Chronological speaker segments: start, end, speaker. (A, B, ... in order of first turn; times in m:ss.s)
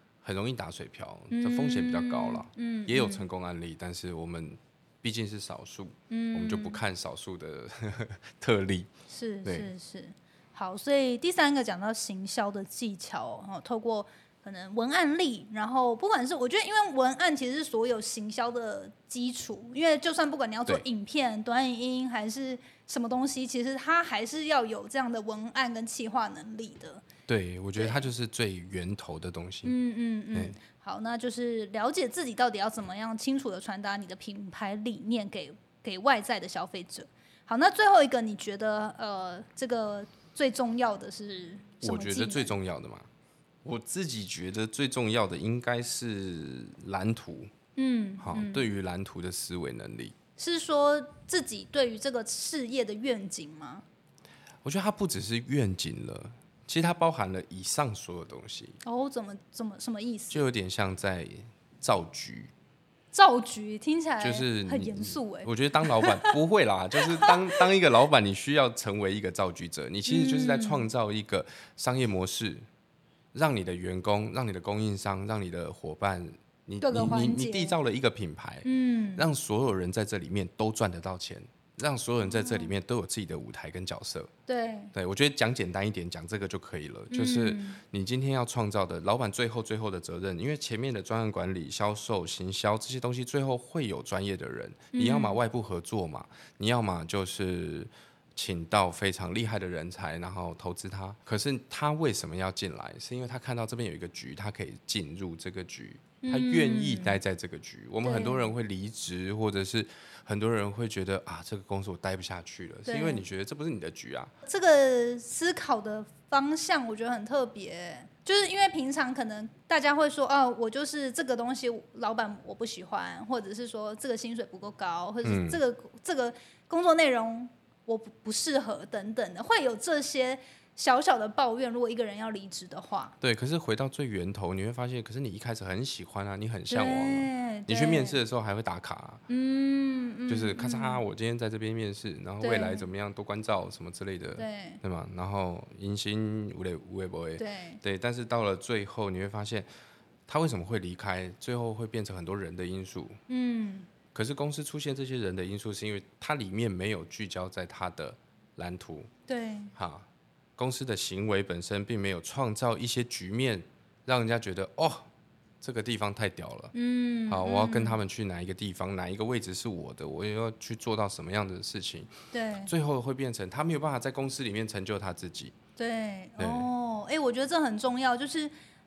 0:00.2-0:08.9 A
0:01.3-0:03.3 B
0:06.1-0:06.8 B
0:09.1-0:27.0 B
0:09.4-0:09.7 A
0:27.3-0:29.8 A
0:27.8-0:28.1 B
0:29.6-0:42.6 B
0:41.8-0:43.1 A
0:43.6-0:47.5 A
0:47.8-0:48.7 B
0:48.2-0:50.1 A
0:50.4-0:53.8 B
0:54.6-0:58.8 A
0:58.8-1:00.4 B
1:00.3-1:02.5 A
1:03.1-1:06.3 B
1:04.2-1:12.6 A
1:07.0-1:07.6 B
1:10.1-1:10.9 B
1:13.3-1:24.3 A
1:16.8-1:17.8 B
1:18.6-1:19.3 B
1:22.2-1:22.7 B
1:24.5-1:24.9 B
1:24.9-1:54.3 A
1:27.1-1:27.8 B
1:34.9-1:35.4 B
1:46.2-1:47.2 B
1:48.0-1:48.5 B
1:52.9-1:53.2 B
1:54.4-2:13.2 B
2:05.2-2:05.6 A
2:13.2-2:19.2 A
2:16.7-2:18.2 B
2:19.3-2:21.0 B
2:20.3-2:29.7 A
2:22.4-2:22.9 B
2:24.4-2:24.8 B
2:27.4-2:27.8 B
2:30.3-2:33.2 A
2:33.3-2:33.9 B
2:34.1-2:39.1 A
2:39.3-2:39.7 B
2:39.8-2:40.1 A
2:40.6-2:45.1 A
2:45.6-2:46.7 A
2:46.7-2:48.0 B
2:47.3-2:55.6 A
2:52.3-2:52.7 B
2:55.8-2:58.5 B
2:56.4-2:56.7 A